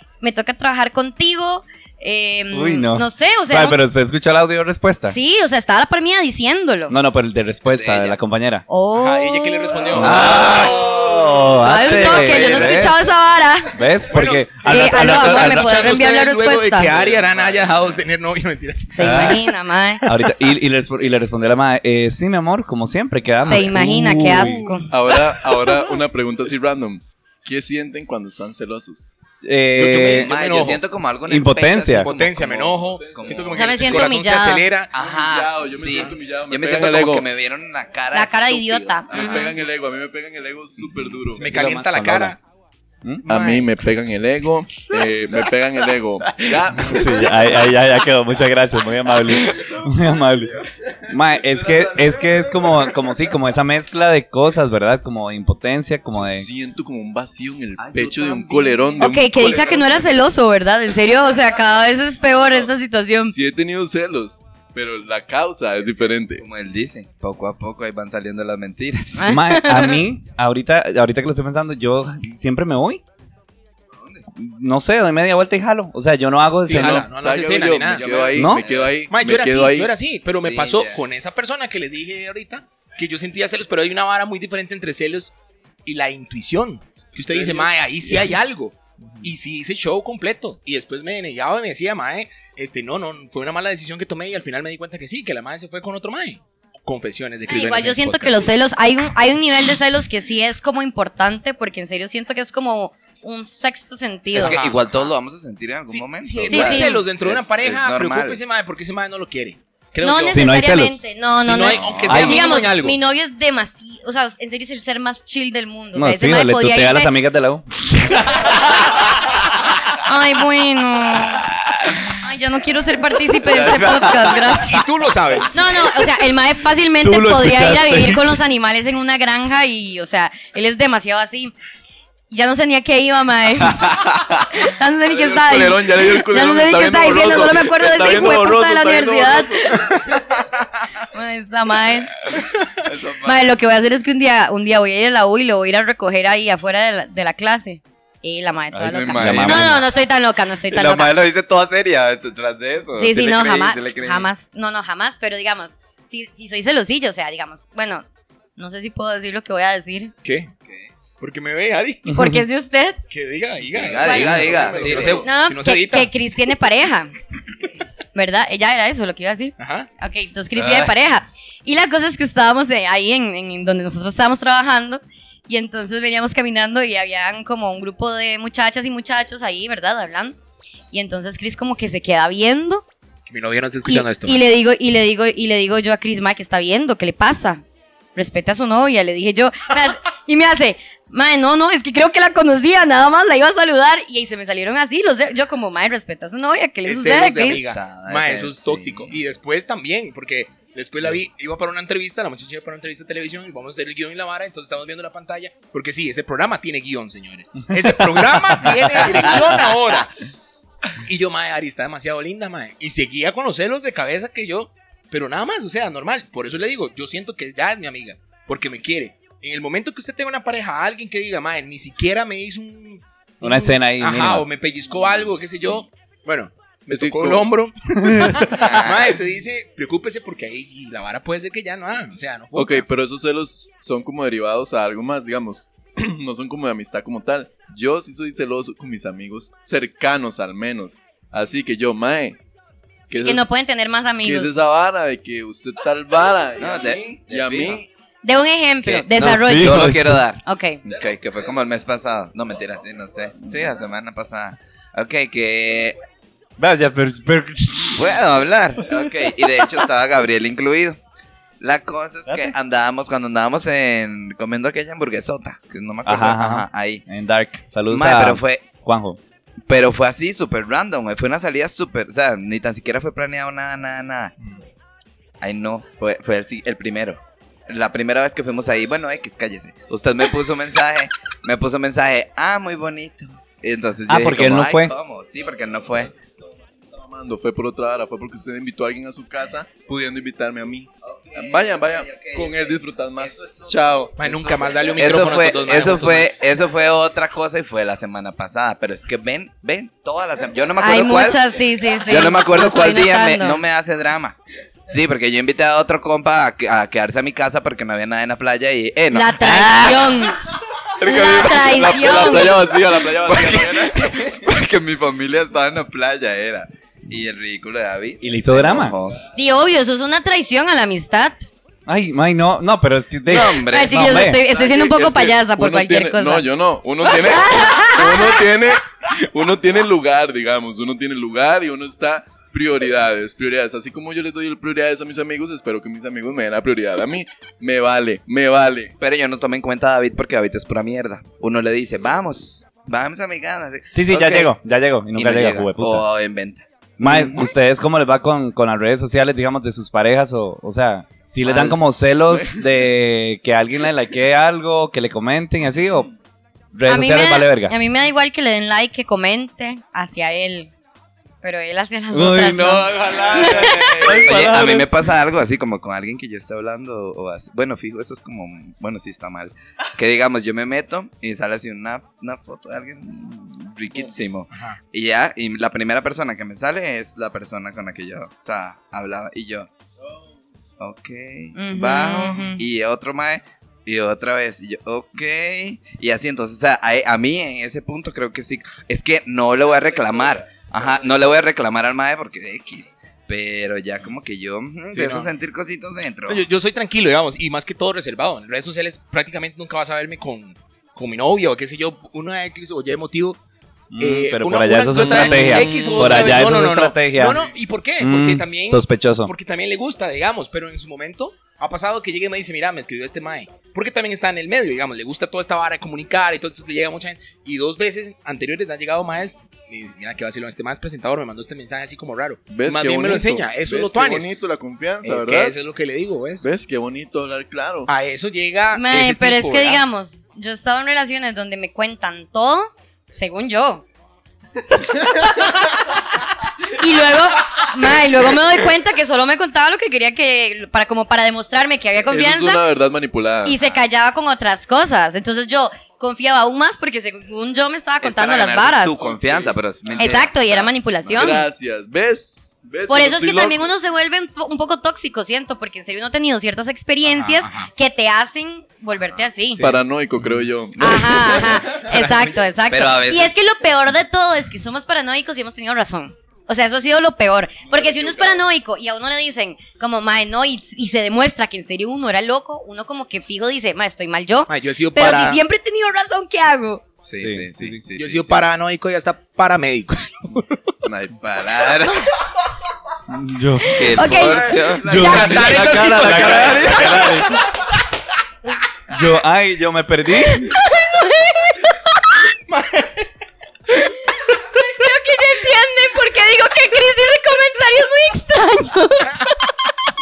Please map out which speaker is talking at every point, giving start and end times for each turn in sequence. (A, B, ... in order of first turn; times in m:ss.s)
0:00.2-0:03.8 A
0:02.5-0:05.2 B
0:05.1-0:07.0 A
0:06.9-0:08.6 B
0:07.7-0:08.2 C
0:08.7-0:10.1 A
0:08.9-0:11.2 D
0:10.0-0:13.0 B
0:10.0-0:10.8 C
0:10.1-0:11.7 E
0:11.5-0:13.8 A
0:13.8-0:15.9 B
0:14.1-0:19.5 D
0:14.6-0:16.9 A
0:16.9-0:17.7 E
0:18.9-0:20.0 A
0:20.0-0:24.8 B
0:23.4-0:24.9 A
0:24.9-0:29.2 E
0:29.4-0:30.3 B
0:29.8-0:30.8 D
0:30.1-0:33.9 C
0:31.3-0:32.1 B
0:31.9-0:34.9 D
0:32.6-0:34.1 E
0:33.6-0:34.7 A
0:34.9-0:39.7 C
0:35.0-0:37.3 E
0:38.1-0:39.6 A
0:39.1-0:41.5 E
0:41.3-0:42.4 D
0:41.5-0:42.4 B
0:43.2-0:43.7 D
0:43.3-0:47.7 E
0:46.8-0:56.5 B
0:51.4-0:52.7 E
0:56.2-1:00.1 E
0:57.8-0:59.0 C
0:59.0-1:03.4 A
1:03.3-1:06.4 E
1:06.4-1:09.3 C
1:09.2-1:10.0 A
1:09.2-1:13.0 B
1:13.9-1:14.2 C
1:14.4-1:17.1 B
1:16.7-1:18.3 D
1:16.7-1:19.9 E
1:17.9-1:18.9 C
1:18.4-1:18.7 B
1:19.1-1:25.3 D
1:20.3-1:21.0 C
1:25.9-1:38.5 D
1:27.2-1:28.3 E
1:37.5-1:44.6 A
1:44.3-1:48.4 C
1:44.4-1:44.9 D
1:45.9-1:50.6 D
1:46.5-1:47.1 A
1:50.0-1:57.1 A
1:50.3-1:51.0 B
1:51.4-1:53.0 D
1:51.6-1:52.3 C
1:52.1-1:52.6 B
1:56.0-1:59.5 B
1:59.9-2:01.5 A
2:01.4-2:02.2 B
2:02.1-2:04.8 A
2:03.6-2:04.1 B
2:04.6-2:05.6 D
2:05.5-2:11.5 A
2:07.0-2:08.4 B
2:12.3-2:20.0 A
2:13.7-2:20.1 E
2:21.0-2:22.1 A
2:23.2-2:31.2 A
2:28.8-2:29.8 C
2:29.0-2:29.8 B
2:30.7-2:34.3 C
2:33.0-2:38.0 A
2:38.6-2:40.1 A
2:40.2-2:40.5 D
2:41.2-2:42.2 D
2:42.1-2:43.0 A
2:43.1-2:46.1 D
2:43.8-2:45.3 C
2:44.0-2:44.4 A
2:44.5-2:45.0 E
2:45.2-2:47.1 A
2:48.1-3:00.4 A
2:49.6-2:49.9 D
2:50.6-2:50.9 C
3:00.9-3:02.8 A
3:03.3-3:04.4 D
3:03.9-3:07.6 A
3:08.2-3:17.6 A
3:16.8-3:30.2 D
3:17.5-3:19.2 C
3:31.0-3:52.8 D
3:43.4-3:44.4 B
3:46.9-3:47.4 E
3:48.5-3:49.1 C
3:52.6-4:02.4 E
4:03.1-4:03.5 E
4:03.2-4:04.6 A
4:04.2-4:07.9 E
4:06.6-4:07.8 C
4:08.2-4:10.8 A
4:08.8-4:16.0 C
4:09.1-4:10.2 B
4:16.6-4:18.2 B
4:18.0-4:21.0 C
4:21.6-4:27.0 C
4:22.3-4:22.5 B
4:26.0-4:29.2 B
4:27.9-4:28.7 C
4:29.7-4:34.3 C
4:35.4-4:46.1 C
4:44.1-4:44.9 B
4:46.8-4:54.2 E
4:51.0-5:01.4 C
4:54.2-4:56.3 D
5:00.8-5:03.6 A
5:02.0-5:10.3 C
5:09.1-5:10.4 A
5:11.0-5:12.6 A
5:11.0-5:11.7 C
5:11.0-5:14.2 E
5:13.1-5:19.2 C
5:18.2-5:19.0 B
5:19.3-5:21.4 A
5:21.9-5:24.4 B
5:23.3-5:24.2 C
5:23.5-5:26.5 A
5:24.4-5:38.9 E
5:27.1-5:28.4 A
5:39.0-5:44.5 C
5:43.9-5:46.0 B
5:45.2-5:47.5 C
5:47.0-5:56.1 B
5:51.4-5:51.8 C
5:56.7-5:57.8 B
5:56.9-6:00.7 A
6:01.4-6:04.2 A
6:02.1-6:04.9 B
6:03.2-6:04.3 E
6:04.2-6:19.7 C
6:20.8-6:36.5 C
6:21.6-6:22.6 A
6:34.9-6:35.3 D
6:36.3-6:43.4 D
6:43.9-6:47.4 B
6:44.0-7:04.3 D
6:45.1-6:46.4 E
6:48.0-6:49.3 B
7:02.5-7:05.6 E
7:05.0-7:06.5 D
7:06.4-7:07.9 E
7:07.9-7:09.8 D
7:08.7-7:13.8 A
7:16.8-7:22.6 A
7:22.1-7:23.6 E
7:23.4-7:29.0 A
7:28.0-7:31.3 C
7:29.0-7:29.5 E
7:30.0-7:31.4 A
7:31.1-7:33.7 E
7:32.9-7:39.6 A
7:37.0-7:37.7 D
7:39.6-7:41.9 E
7:40.8-7:56.8 A
7:42.7-7:43.4 C
7:47.8-7:48.3 E
7:54.5-7:55.4 D
7:57.0-7:58.5 C
7:57.2-7:57.8 B
7:58.0-8:00.6 D
8:00.8-8:02.1 C
8:03.1-8:04.1 B
8:03.6-8:05.0 A
8:03.7-8:05.2 C
8:04.2-8:07.2 E
8:04.8-8:07.4 B
8:04.9-8:07.3 D
8:08.9-8:10.5 B
8:10.3-8:12.2 A
8:12.5-8:13.0 D
8:14.4-8:19.5 A